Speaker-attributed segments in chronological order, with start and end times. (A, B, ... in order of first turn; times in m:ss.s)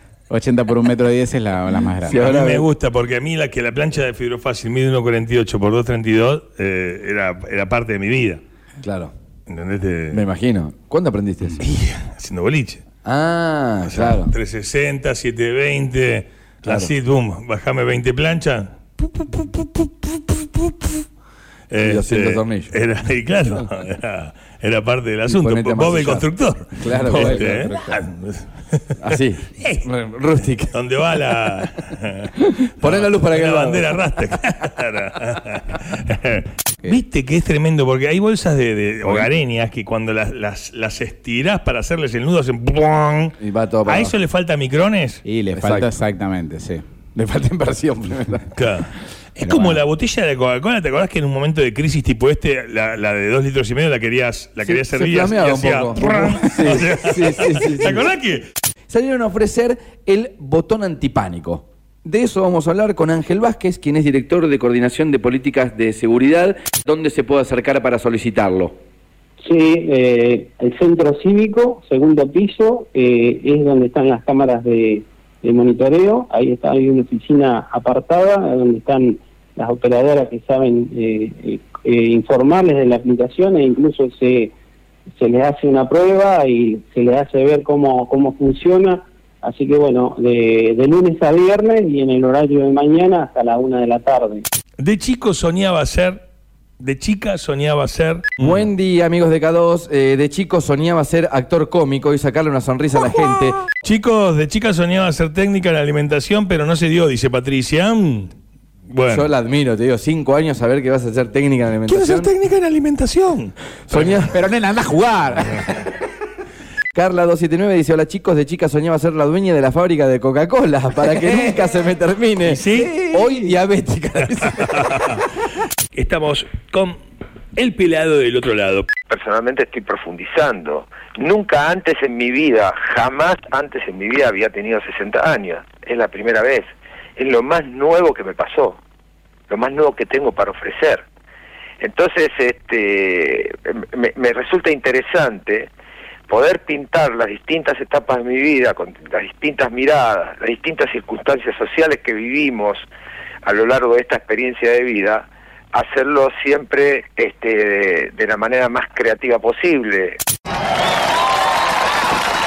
0:00.3-0:02.2 A
0:02.0-0:02.7 B
0:02.1-0:08.4 C
0:08.8-0:09.1 B
0:09.5-0:10.2 C
0:10.1-0:11.6 B
0:11.6-0:12.8 C
0:13.0-0:14.3 B
0:13.8-0:21.0 C
0:16.6-0:16.9 B
0:21.7-0:28.8 C
0:21.8-0:22.7 B
0:25.3-0:27.6 B
0:27.0-0:28.0 A
0:29.0-0:30.7 B
0:29.6-0:29.8 C
0:30.7-0:45.2 C
0:32.4-0:34.0 B
0:43.4-0:44.1 B
0:45.2-0:46.8 A
0:45.5-0:45.9 B
0:47.1-0:48.5 B
0:48.5-0:58.4 C
0:49.4-0:49.8 A
0:54.6-0:58.1 B
0:58.9-1:08.7 B
1:09.4-1:24.5 D
1:25.2-1:34.4 D
1:34.8-1:36.2 C
1:36.8-1:38.7 C
1:38.4-1:43.7 B
1:43.8-1:48.3 C
1:48.9-1:49.3 C
1:49.1-1:52.3 B
1:51.8-1:54.3 C
1:53.9-1:54.3 B
1:54.3-1:55.7 A
1:56.9-2:04.9 B
2:02.4-2:03.3 C
2:04.6-2:05.2 C
2:05.9-2:07.0 C
2:07.5-2:08.9 C
2:09.1-2:18.8 E
2:19.5-2:21.0 E
2:21.8-2:25.7 E
2:26.3-2:32.9 E
2:33.4-2:40.2 E